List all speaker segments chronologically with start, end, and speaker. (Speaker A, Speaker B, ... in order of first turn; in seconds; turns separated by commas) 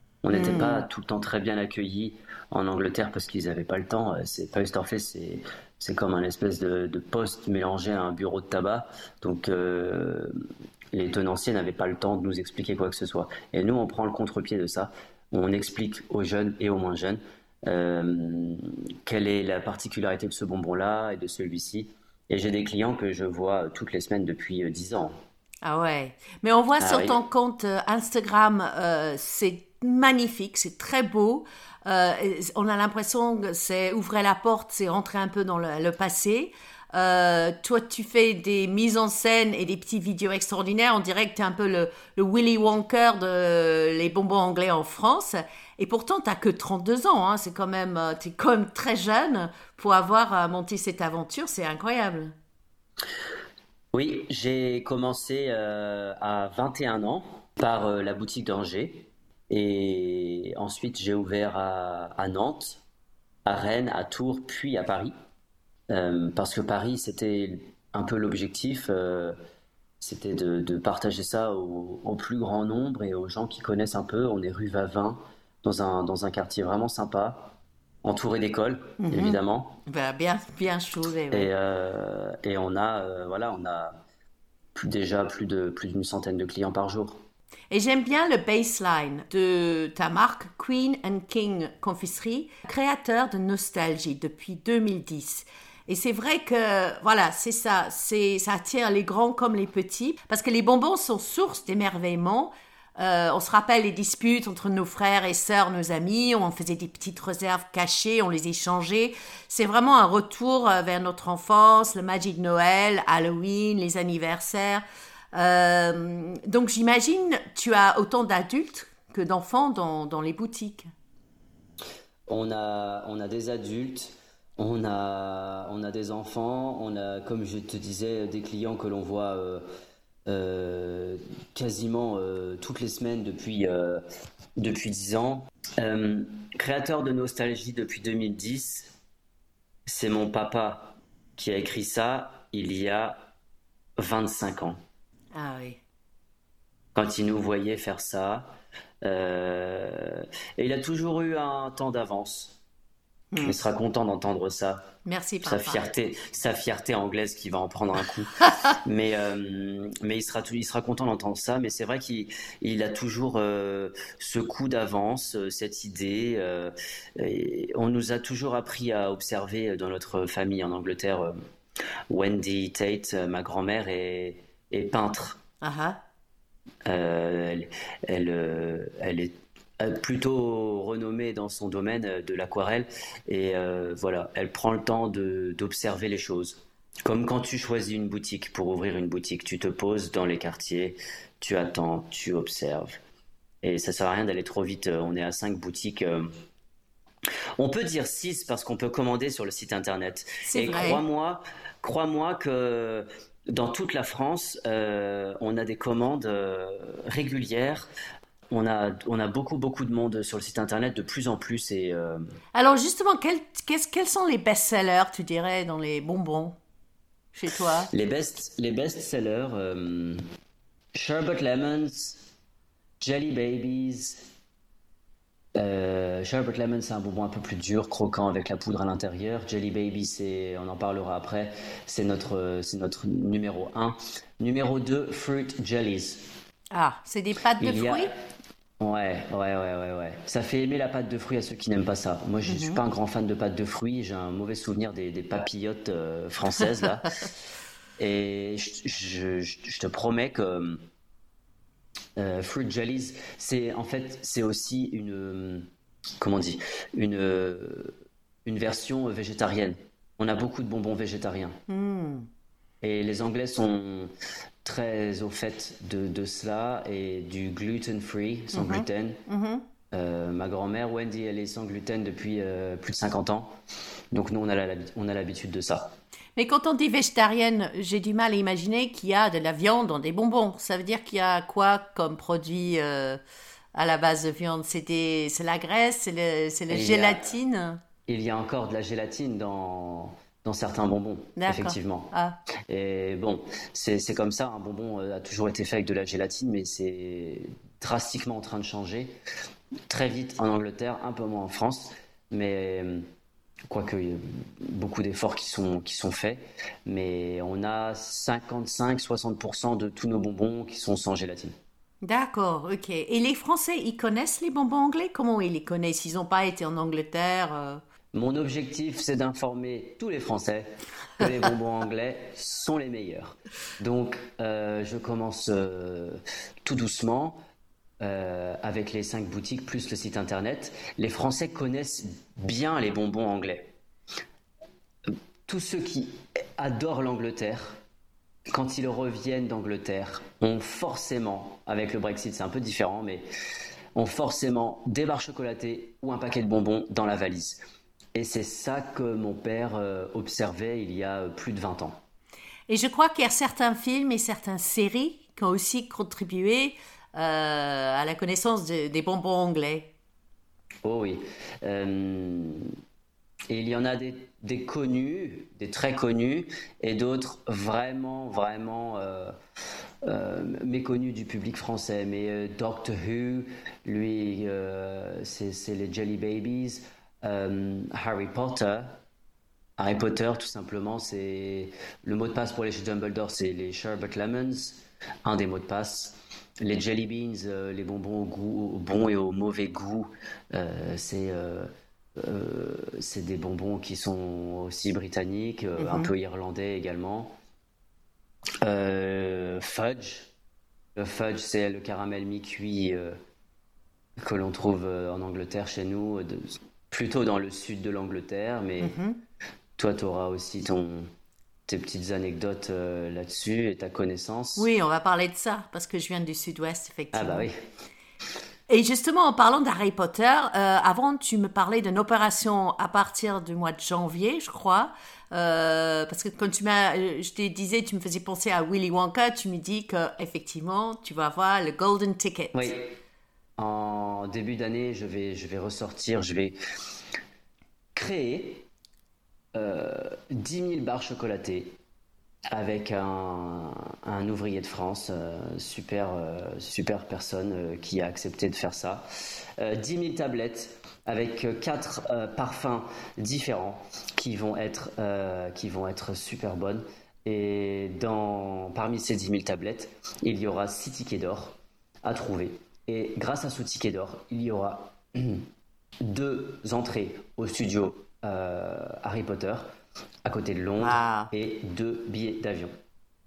Speaker A: 0.2-10.3, Speaker B: 0.3-0.8, Speaker A: 10.9-25.2, Speaker B: 25.6-52.3, Speaker A: 26.8-27.2, Speaker A: 53.9-62.8, Speaker A: 63.5-65.1, Speaker A: 65.9-69.4, Speaker A: 70.0-79.8, Speaker B: 79.0-81.5, Speaker A: 81.3-84.0, Speaker A: 84.8-87.2, Speaker B: 87.7-114.8, Speaker B: 115.3-120.9, Speaker A: 122.3-129.7, Speaker A: 130.3-134.0, Speaker A: 134.6-138.9, Speaker A: 139.9-143.3, Speaker A: 144.0-144.8, Speaker B: 145.3-145.8, Speaker A: 146.9-152.6, Speaker B: 153.3-153.6, Speaker A: 153.4-154.9, Speaker B: 155.1-155.8, Speaker A: 155.4-171.3, Speaker A: 172.1-175.4, Speaker B: 175.6-176.0, Speaker A: 176.9-193.0, Speaker A: 193.6-196.3, Speaker A: 197.6-207.9, Speaker B: 200.4-201.0, Speaker A: 208.5-212.2, Speaker B: 212.6-216.6, Speaker B: 217.3-217.9, Speaker A: 217.9-220.2, Speaker A: 220.9-222.2, Speaker A: 223.0-224.3, Speaker A: 225.6-236.3, Speaker B: 236.7-238.1, Speaker A: 237.6-238.1, Speaker A: 238.8-247.3, Speaker B: 242.4-242.8, Speaker A: 248.0-250.8, Speaker A: 252.2-255.7, Speaker A: 256.2-257.9, Speaker A: 258.4-261.6, Speaker B: 261.7-262.3, Speaker A: 262.8-264.1, Speaker A: 264.6-269.2, Speaker B: 268.5-269.6, Speaker A: 269.9-273.6, Speaker A: 274.1-276.0, Speaker B: 276.4-283.2, Speaker B: 283.8-287.8, Speaker A: 286.7-287.2, Speaker A: 288.1-292.1, Speaker B: 291.4-292.4, Speaker A: 292.7-299.1, Speaker A: 299.9-303.0, Speaker A: 303.7-311.6, Speaker B: 312.0-317.8, Speaker A: 318.1-327.4, Speaker A: 328.0-333.7, Speaker A: 335.1-337.8, Speaker A: 338.5-343.2, Speaker A: 343.9-347.6, Speaker A: 348.1-352.0, Speaker B: 352.7-359.9, Speaker A: 360.8-362.7, Speaker A: 363.5-369.3, Speaker A: 370.0-378.9, Speaker A: 379.8-397.3, Speaker B: 395.8-396.1, Speaker A: 398.6-400.3, Speaker A: 400.9-403.2, Speaker A: 404.2-409.0, Speaker B: 408.8-409.2, Speaker A: 409.8-411.1, Speaker A: 411.7-414.7, Speaker B: 414.6-417.5, Speaker A: 417.1-417.6, Speaker B: 418.7-432.7, Speaker A: 432.5-432.9, Speaker A: 433.6-436.6, Speaker A: 437.9-438.7, Speaker A: 439.5-441.8, Speaker A: 442.5-449.0, Speaker A: 449.6-465.5, Speaker A: 466.0-469.7, Speaker A: 470.2-472.7, Speaker B: 470.8-471.3